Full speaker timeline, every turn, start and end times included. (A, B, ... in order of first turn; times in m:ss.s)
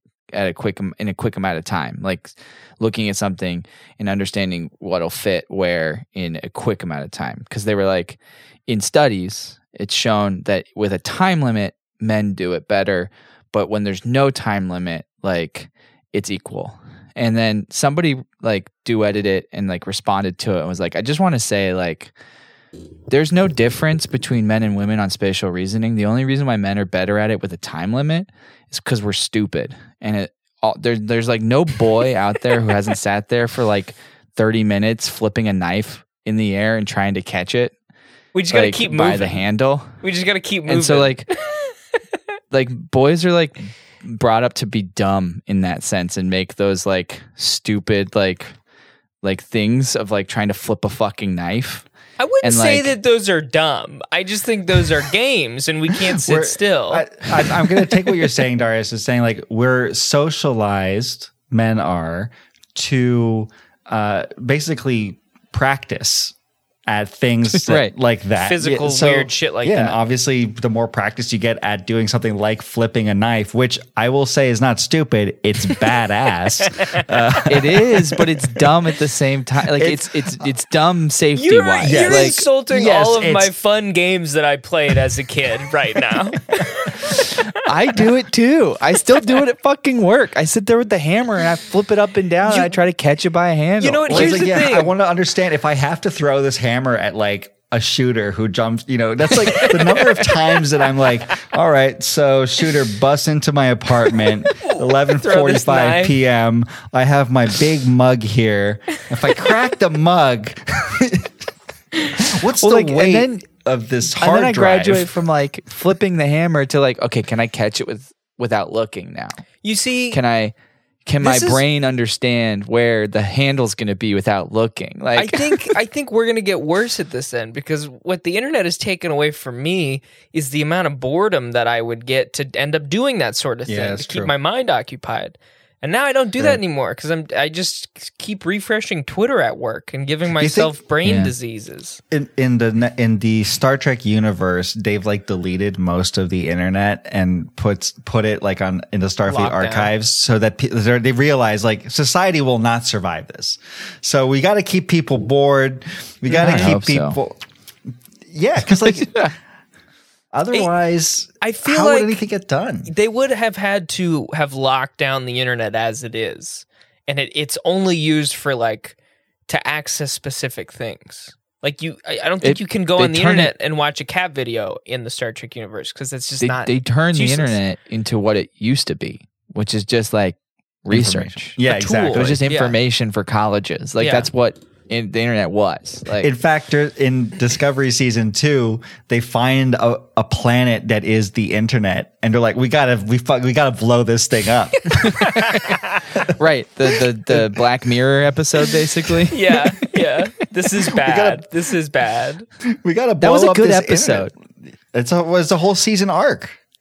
0:00.3-0:22.1 A
0:23.1-0:37.7 A
0:38.3-0:39.4 B
0:38.5-0:39.9 A
0:40.0-0:41.7 B
0:40.7-0:41.3 A
0:42.5-0:48.5 A
0:49.2-0:51.8 A
0:52.2-0:57.2 B
0:52.4-0:52.9 A
0:56.0-1:06.3 C
1:06.9-1:18.2 C
1:07.5-1:07.9 A
1:08.4-1:10.0 B
1:17.5-1:22.4 A
1:19.8-1:20.0 C
1:21.4-1:27.0 B
1:21.8-1:23.5 C
1:27.5-1:34.4 A
1:33.8-1:34.9 B
1:34.1-1:51.3 C
1:39.5-1:40.1 B
1:44.6-1:46.2 B
1:52.2-1:55.1 C
1:52.5-1:53.4 A
1:54.2-1:59.4 A
1:59.6-2:00.2 B
2:00.1-2:00.5 A
2:01.0-2:05.7 A
2:01.2-2:01.6 B
2:05.2-2:22.0 B
2:13.7-2:14.3 C
2:20.4-2:20.7 C
2:21.0-2:21.3 A
2:22.1-2:37.4 C
2:29.2-2:29.9 B
2:36.3-2:36.7 B
2:36.4-2:37.2 A
2:38.3-2:39.3 C
2:38.9-2:39.3 A
2:40.3-2:42.9 C
2:41.4-2:42.2 B
2:42.9-2:49.0 B
2:49.5-2:57.6 B
2:52.4-2:53.5 A
2:56.4-3:01.6 A
3:00.9-3:02.4 C
3:01.6-3:02.8 B
3:02.1-3:06.3 A
3:04.0-3:04.3 B
3:06.2-3:15.7 C
3:15.2-3:16.0 B
3:16.3-3:19.6 A
3:19.3-3:22.4 B
3:20.9-3:21.4 C
3:22.7-3:24.3 C
3:23.2-3:24.3 A
3:24.9-3:26.6 C